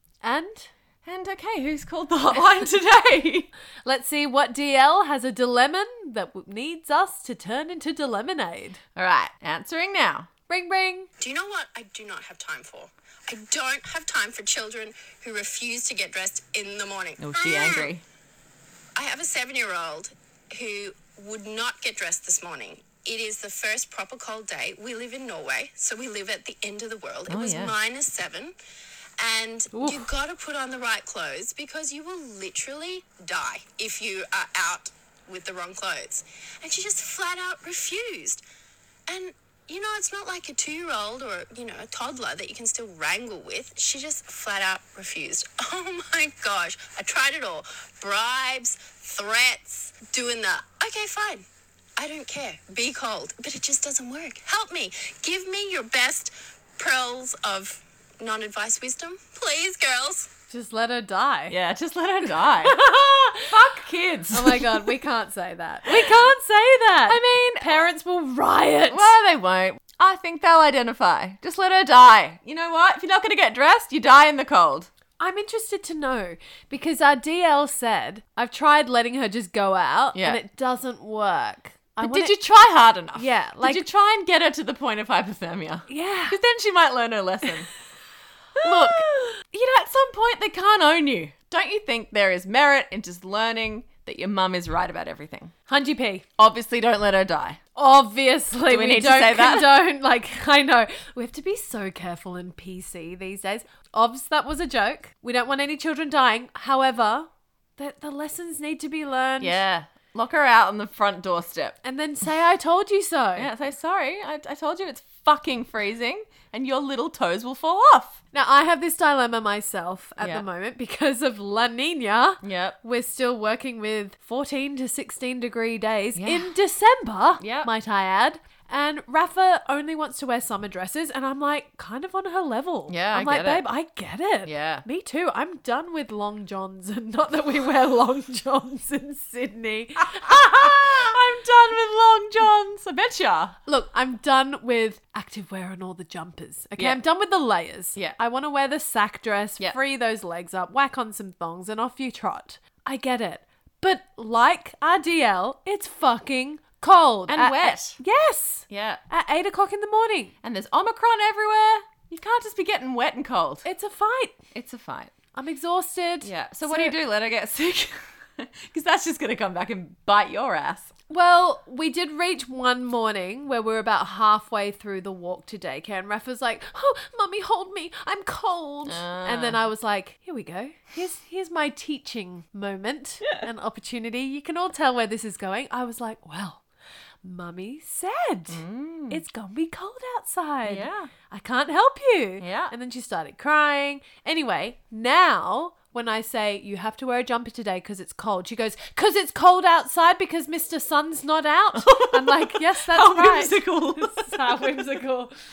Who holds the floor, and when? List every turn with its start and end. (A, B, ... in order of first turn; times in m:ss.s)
0:00.2-0:00.7 A
0:01.0-0:03.5 B
0:03.8-0:08.8 A
0:09.0-0:10.3 B
0:10.5-0:11.1 A
0:11.2-0:17.9 C
0:17.2-0:18.0 B
0:19.0-0:28.5 C
0:27.3-0:27.7 B
0:29.2-0:38.4 C
0:29.7-0:30.1 A
0:39.1-0:51.4 C
0:52.0-1:00.3 C
1:00.5-1:01.6 A
1:01.5-1:02.8 B
1:02.6-1:03.5 A
1:03.4-1:04.9 B
1:04.3-1:09.1 A
1:05.8-1:06.2 B
1:07.1-1:07.9 B
1:08.9-1:14.9 B
1:15.2-1:22.3 A
1:20.1-1:20.4 B
1:22.0-1:27.7 B
1:23.1-1:23.8 A
1:25.9-1:26.4 A
1:28.6-1:29.4 A
1:28.6-1:35.5 B
1:35.7-1:36.2 A
1:36.4-1:37.6 B
1:37.7-1:49.6 A
1:38.6-1:39.8 B
1:49.4-1:51.8 B
1:51.8-1:53.5 A
1:53.4-1:58.2 B
1:58.3-2:21.0 A
2:00.2-2:00.4 B
2:02.4-2:02.8 B
2:06.2-2:06.5 B
2:07.4-2:07.7 B
2:12.9-2:13.6 B
2:14.4-2:14.8 B
2:20.0-2:23.6 B
2:23.6-2:40.3 A
2:26.8-2:27.0 B
2:37.3-2:38.0 B
2:38.7-2:39.0 B
2:40.4-2:43.7 B
2:43.6-2:44.4 A
2:44.5-2:45.1 B
2:45.3-2:47.0 A
2:46.2-2:50.9 B
2:51.1-3:06.6 A
2:58.8-2:59.6 B
3:07.2-3:25.3 A
3:08.5-3:09.2 B
3:10.6-3:11.1 B
3:12.4-3:12.7 B
3:21.7-3:25.0 B